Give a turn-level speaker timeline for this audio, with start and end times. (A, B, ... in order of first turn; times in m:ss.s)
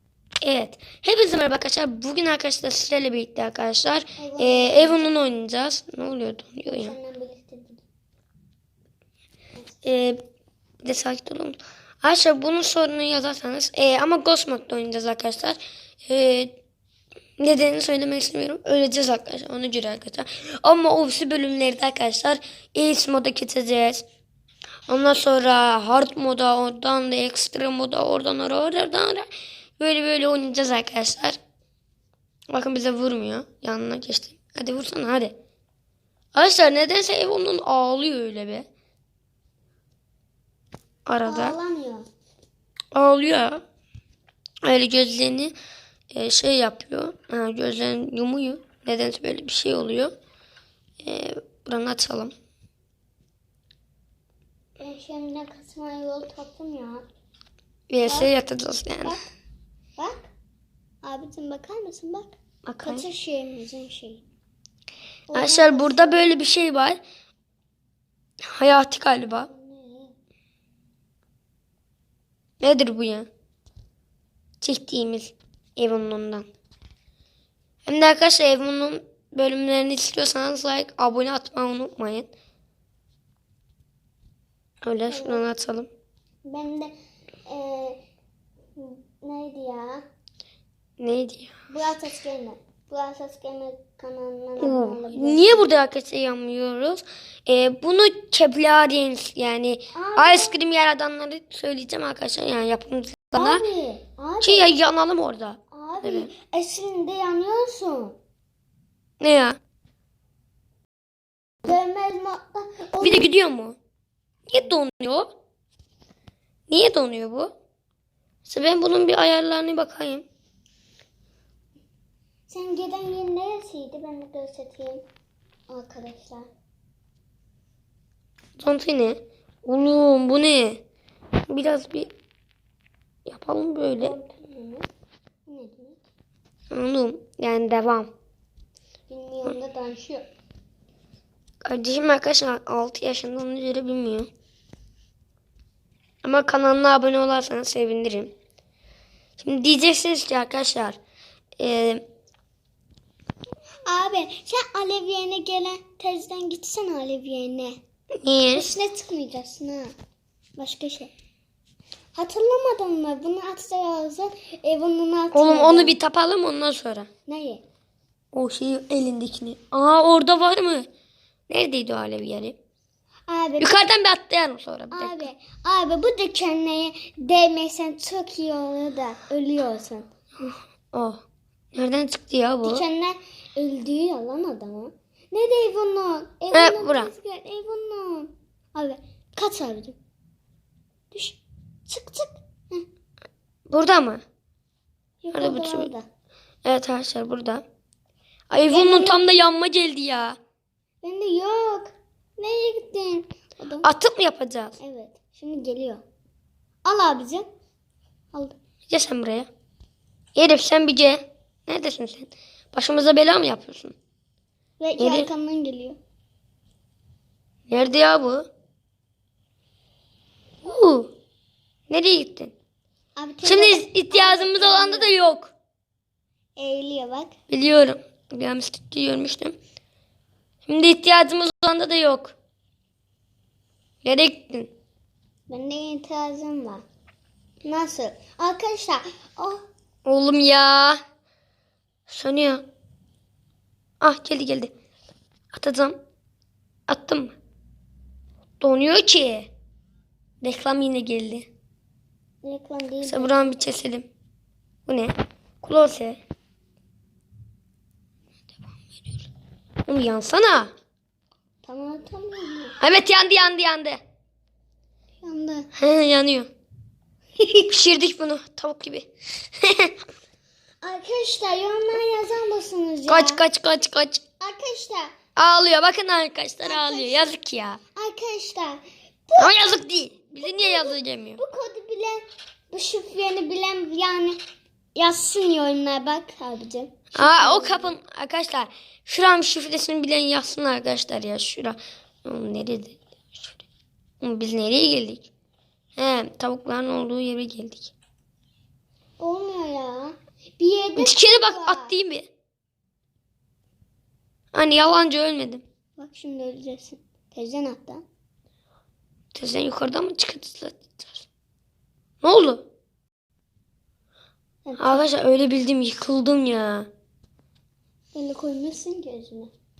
0:00.4-0:06.9 A
0:04.2-0:05.2 B
0:06.7-0:07.8 B
0:09.8-0:10.2 A
0:10.8-0:16.5 A
0:17.4-0:24.0 A
0:24.9-0:31.4 A
0:32.5-0:35.3 A
0:36.3-0:38.7 A
0:41.1-0:41.6 A
0:41.2-0:42.1 B
0:42.9-0:43.6 A
0:44.6-0:45.5 A
0:46.1-0:50.1 A
0:51.0-0:52.3 A
0:54.8-0:57.1 B
0:57.9-0:59.2 A
0:58.1-0:58.3 B
1:00.0-1:00.3 B
1:01.0-1:04.2 B
1:02.7-1:03.0 A
1:05.3-1:06.2 B
1:05.3-1:07.0 A
1:08.5-1:09.5 A
1:09.5-1:10.1 B
1:12.6-1:13.3 A
1:14.6-1:16.5 A
1:17.8-1:22.3 A
1:24.8-1:25.9 A
1:25.1-1:25.4 B
1:26.4-1:26.9 B
1:27.4-1:28.0 B
1:28.8-1:30.0 B
1:31.0-1:31.5 A
1:31.7-1:35.7 B
1:34.6-1:43.6 A
1:39.9-1:40.5 B
1:43.3-1:44.7 B
1:44.4-1:46.3 A
1:45.7-1:48.2 B
1:49.2-1:49.6 A
1:51.6-1:53.3 B
1:53.0-1:53.8 A
1:54.5-1:55.3 A
1:56.7-1:57.5 A
1:58.4-2:00.2 A
2:02.5-2:05.0 B
2:05.7-2:06.5 B
2:08.6-2:10.8 A
2:11.5-2:12.1 A
2:13.2-2:14.2 A
2:14.0-2:14.8 B
2:15.4-2:16.0 B
2:16.7-2:18.1 A
2:19.1-2:20.3 B
2:21.6-2:24.3 A
2:26.2-2:28.3 A
2:29.4-2:31.0 A
2:31.6-2:32.0 A
2:33.8-2:37.8 B
2:38.2-2:38.7 A
2:38.5-2:39.9 B
2:40.6-2:41.1 B
2:42.2-2:46.0 B
2:45.3-2:47.1 A
2:47.3-2:47.6 B
2:48.3-2:50.9 A
2:51.5-2:52.6 A
2:53.3-2:53.8 B
2:53.6-2:55.3 A
2:54.9-3:00.1 B
3:00.4-3:01.2 A
3:01.7-3:02.8 A
3:02.6-3:10.0 B
3:06.5-3:07.1 A
3:11.1-3:12.8 B
3:13.7-3:14.2 A
3:15.2-3:16.1 B
3:15.3-3:15.9 A
3:16.6-3:17.6 A
3:18.5-3:20.4 A
3:18.7-3:19.2 B
3:21.0-3:23.9 B
3:23.8-3:24.8 A
3:24.8-3:26.0 B
3:26.8-3:27.5 B
3:28.9-3:29.5 A
3:30.4-3:34.0 A
3:34.8-3:36.0 B
3:35.0-3:35.3 A
3:37.7-3:38.5 A
3:40.6-3:41.1 A
3:41.9-3:42.5 A
3:43.2-3:45.2 B
3:43.4-3:45.5 A
3:46.6-3:47.3 B
3:47.5-3:49.6 A
3:50.7-3:52.3 A
3:54.0-3:54.7 A
3:55.5-3:56.8 B
3:57.6-3:59.6 B
4:00.0-4:01.0 A
4:02.1-4:02.6 A
4:04.0-4:04.7 A
4:05.5-4:06.0 A
4:06.9-4:07.4 A
4:08.6-4:09.5 A
4:10.4-4:11.5 A
4:12.4-4:13.4 B
4:13.0-4:14.1 A
4:14.8-4:16.2 A
4:18.9-4:19.2 A
4:19.9-4:20.7 A
4:21.6-4:22.8 B
4:22.8-4:24.0 A
4:25.2-4:25.7 B
4:25.8-4:26.5 A
4:27.7-4:29.1 A
4:29.6-4:29.9 A
4:30.8-4:33.4 B
4:33.1-4:34.2 A
4:34.4-4:35.1 B
4:35.4-4:37.8 A
4:36.6-4:37.3 B
4:38.0-4:39.7 B
4:39.4-4:41.4 A
4:40.4-4:44.4 B
4:45.0-4:47.9 B
4:47.1-4:53.6 A
4:54.2-4:55.3 A
4:56.0-4:57.9 A
4:59.2-5:01.9 B
5:01.0-5:02.3 A
5:04.5-5:05.6 A
5:06.0-5:08.0 B
5:09.3-5:11.3 A
5:12.2-5:12.6 A
5:14.6-5:15.0 B
5:14.8-5:16.9 A
5:18.1-5:19.5 B